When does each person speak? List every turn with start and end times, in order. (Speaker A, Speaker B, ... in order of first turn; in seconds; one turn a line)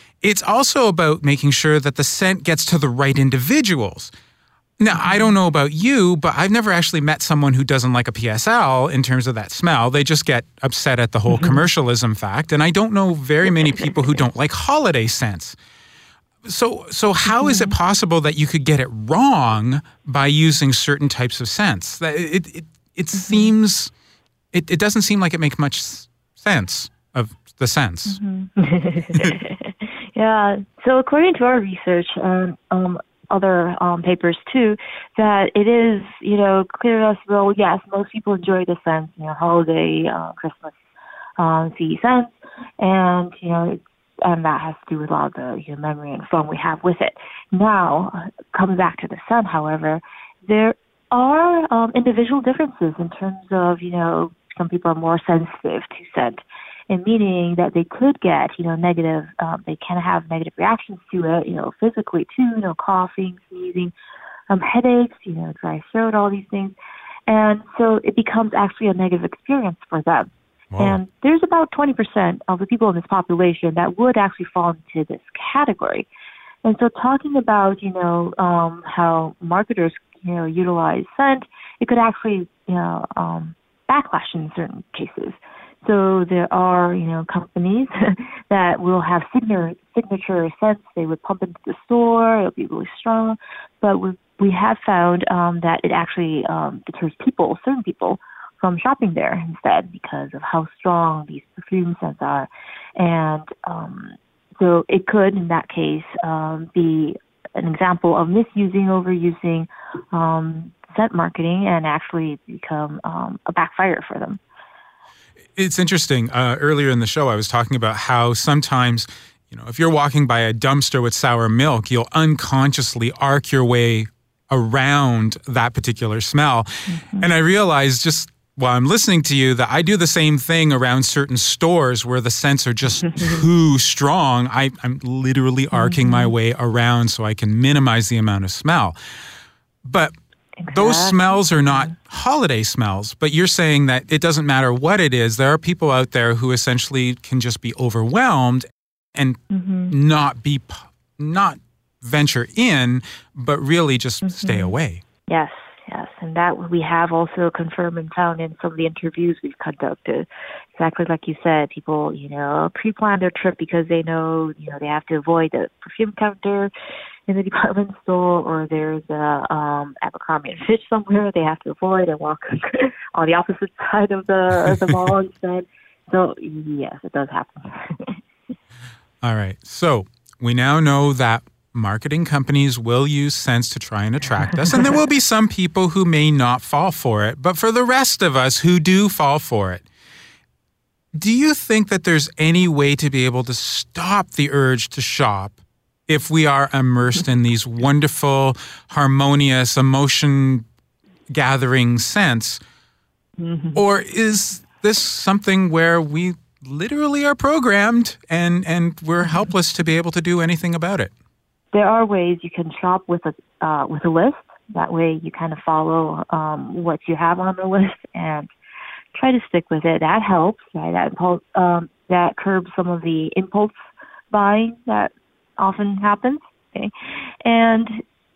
Speaker A: 0.2-4.1
Speaker A: 4.8-15.6
Speaker B: 4.9-5.2
Speaker B: 11.3-11.6
Speaker A: 16.4-23.9
Speaker B: 17.3-17.7
Speaker B: 23.1-23.5
Speaker A: 24.5-28.2
Speaker B: 28.1-40.7
Speaker B: 41.4-63.9
Speaker B: 64.5-66.8
Speaker B: 67.3-76.1
Speaker B: 76.6-114.4
Speaker A: 115.5-138.9
Speaker B: 126.9-127.3
Speaker B: 133.1-133.4
Speaker B: 135.7-136.3
Speaker A: 139.8-140.1
Speaker B: 140.6-141.9
Speaker A: 140.7-149.4
Speaker B: 149.5-149.9
Speaker A: 149.9-155.0
Speaker B: 154.2-154.7
Speaker B: 155.3-166.7
Speaker B: 167.3-178.2
Speaker A: 179.2-189.8
Speaker A: 191.1-195.6
Speaker A: 196.1-200.7
Speaker A: 201.3-202.6
Speaker B: 203.4-203.8
Speaker A: 203.7-211.1
Speaker B: 211.7-218.5
Speaker B: 219.1-223.7
Speaker B: 224.3-226.9
Speaker B: 227.4-228.0